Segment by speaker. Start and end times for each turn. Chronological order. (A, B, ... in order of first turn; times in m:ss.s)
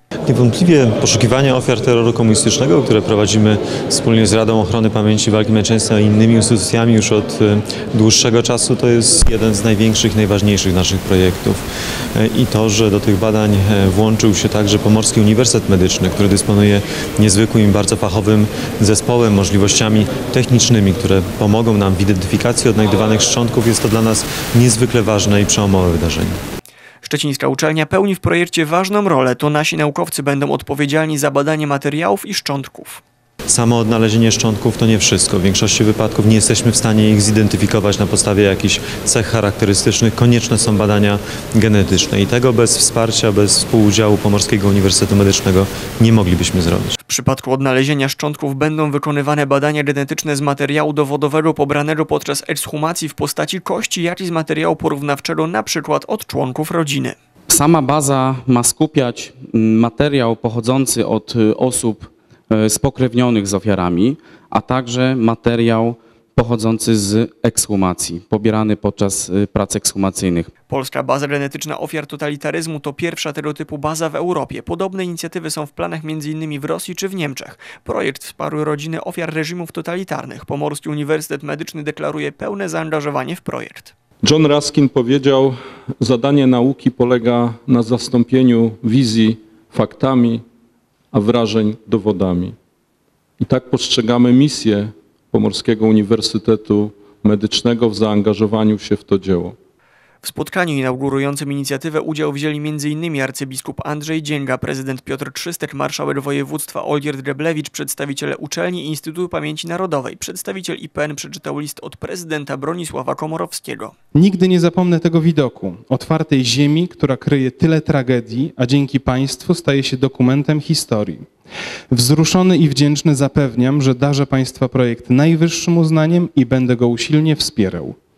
0:00.2-0:26.4 A
0:27.0-0:33.0 B
0:33.5-0:47.0 A
0:47.0-0:57.2 B
0:57.5-1:10.5 C
1:10.7-1:23.9 B
1:24.2-1:30.4 D
1:31.1-1:32.5 D
1:33.4-1:39.6 D
1:40.2-1:53.9 B
1:54.1-2:01.2 E
2:01.9-2:08.0 E